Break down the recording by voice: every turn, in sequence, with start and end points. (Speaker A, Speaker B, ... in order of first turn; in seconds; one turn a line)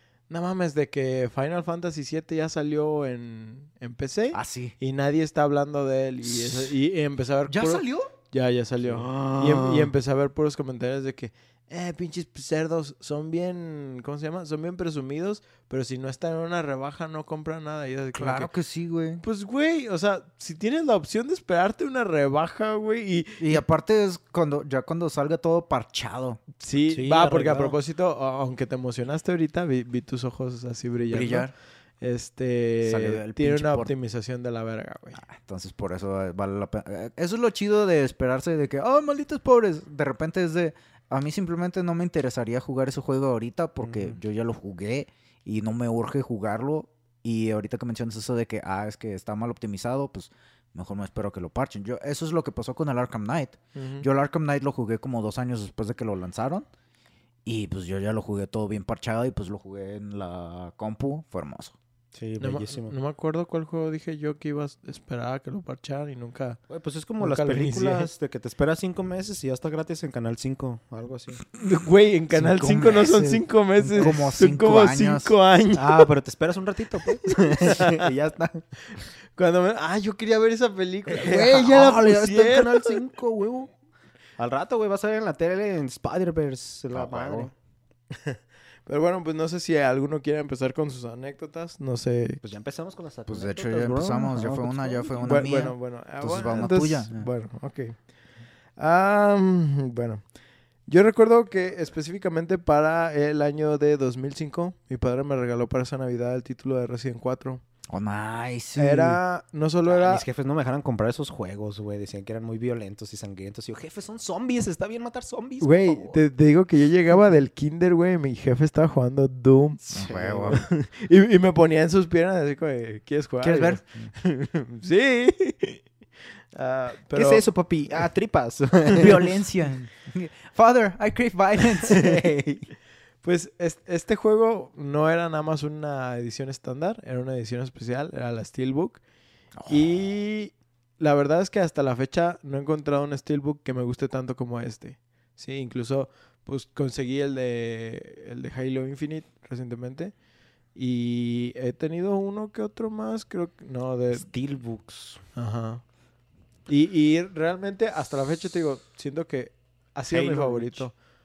Speaker A: 0.3-18.5
Speaker B: 4.3-4.7
Speaker B: 6.2-6.8
Speaker B: 7.5-8.1
Speaker B: 8.8-9.9
Speaker B: 18.1-19.2
Speaker A: 19.2-23.6
Speaker B: 23.4-26.5
Speaker A: 26.6-35.2
Speaker C: 26.9-27.8
Speaker B: 31.1-31.5
Speaker B: 32.8-33.9
Speaker B: 35.2-56.7
Speaker A: 53.8-54.0
Speaker B: 57.4-61.7
Speaker C: 62.1-62.9
Speaker A: 62.4-66.6
Speaker C: 66.7-71.4
Speaker A: 67.2-68.1
Speaker A: 71.6-76.1
Speaker B: 72.3-75.3
Speaker C: 75.7-78.7
Speaker A: 77.3-78.0
Speaker A: 79.0-83.0
Speaker C: 81.1-83.7
Speaker C: 84.4-87.5
Speaker B: 86.9-87.5
Speaker A: 88.1-92.4
Speaker C: 92.4-95.4
Speaker B: 93.3-97.3
Speaker A: 95.2-98.0
Speaker A: 98.8-100.3
Speaker A: 100.8-107.6
Speaker B: 107.9-109.2
Speaker A: 108.8-110.2
Speaker C: 109.9-116.2
Speaker A: 115.6-119.9
Speaker C: 119.8-120.6
Speaker B: 119.9-120.6
Speaker A: 120.5-125.9
Speaker B: 123.4-124.1
Speaker A: 126.5-127.5
Speaker C: 127.1-129.3
Speaker B: 129.0-132.4
Speaker C: 131.9-132.6
Speaker A: 133.2-139.0
Speaker B: 139.6-139.9
Speaker A: 139.7-150.2
Speaker A: 150.7-154.3
Speaker C: 154.1-155.2
Speaker A: 155.3-155.9
Speaker A: 156.7-161.0
Speaker C: 160.1-160.9